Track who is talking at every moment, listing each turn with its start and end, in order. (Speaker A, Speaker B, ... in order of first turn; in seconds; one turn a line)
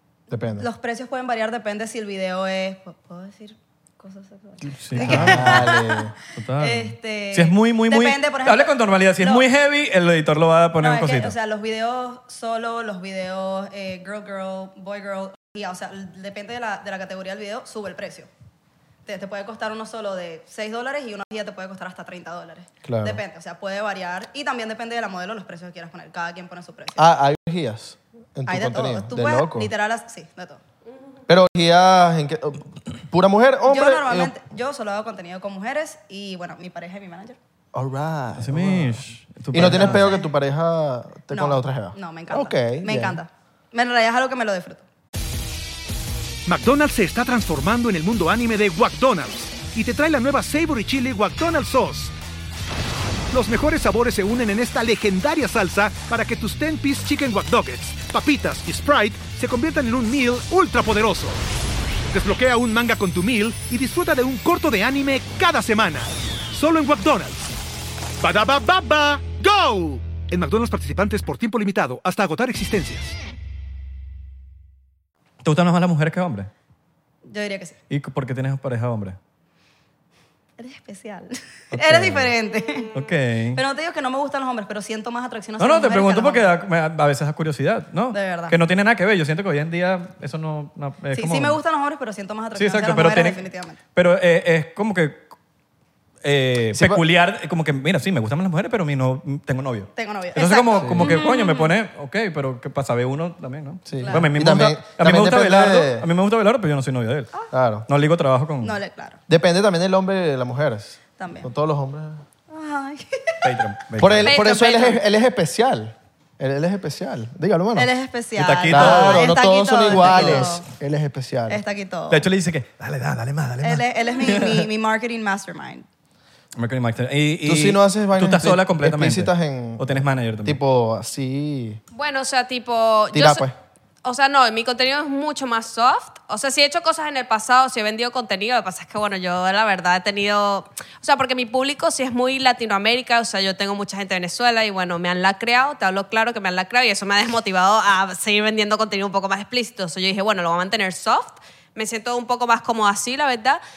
Speaker A: 0.3-0.7
Speaker B: 0.6-9.5
Speaker C: 4.6-5.7
Speaker A: 5.0-6.1
Speaker C: 6.3-11.3
Speaker B: 10.8-18.3
Speaker B: 19.0-27.1
Speaker A: 22.8-23.2
Speaker A: 27.0-29.7
Speaker B: 28.5-30.6
Speaker A: 31.3-34.3
Speaker B: 33.7-37.4
Speaker A: 37.7-43.2
Speaker C: 38.4-40.1
Speaker B: 39.5-40.3
Speaker B: 41.3-44.8
Speaker D: 46.5-52.1
Speaker D: 53.3-61.4
Speaker D: 62.1-67.4
Speaker D: 68.2-73.1
Speaker C: 75.4-76.5
Speaker B: 77.2-77.8
Speaker C: 77.9-79.2
Speaker B: 80.6-82.9
Speaker C: 81.7-82.3
Speaker C: 82.9-83.6
Speaker B: 83.5-86.5
Speaker C: 85.6-91.6
Speaker B: 88.1-88.6
Speaker B: 91.1-93.8
Speaker C: 92.5-93.4
Speaker C: 93.9-95.3
Speaker C: 96.2-107.3
Speaker A: 96.7-97.0
Speaker B: 100.0-101.6
Speaker A: 100.8-101.1
Speaker E: 101.1-101.7
Speaker A: 103.9-106.1
Speaker B: 104.0-104.3
Speaker A: 107.5-107.8
Speaker C: 107.9-108.8
Speaker B: 108.6-109.2
Speaker A: 109.3-112.2
Speaker B: 111.2-111.5
Speaker B: 112.5-113.6
Speaker C: 113.4-114.3
Speaker A: 114.0-117.9
Speaker E: 114.2-115.0
Speaker B: 117.8-120.7
Speaker C: 118.3-119.3
Speaker A: 118.7-121.6
Speaker C: 119.9-120.5
Speaker B: 121.5-122.3
Speaker C: 122.1-124.7
Speaker B: 123.6-125.8
Speaker C: 126.5-130.6
Speaker A: 127.4-131.8
Speaker E: 131.9-133.4
Speaker A: 133.1-133.5
Speaker E: 134.0-153.6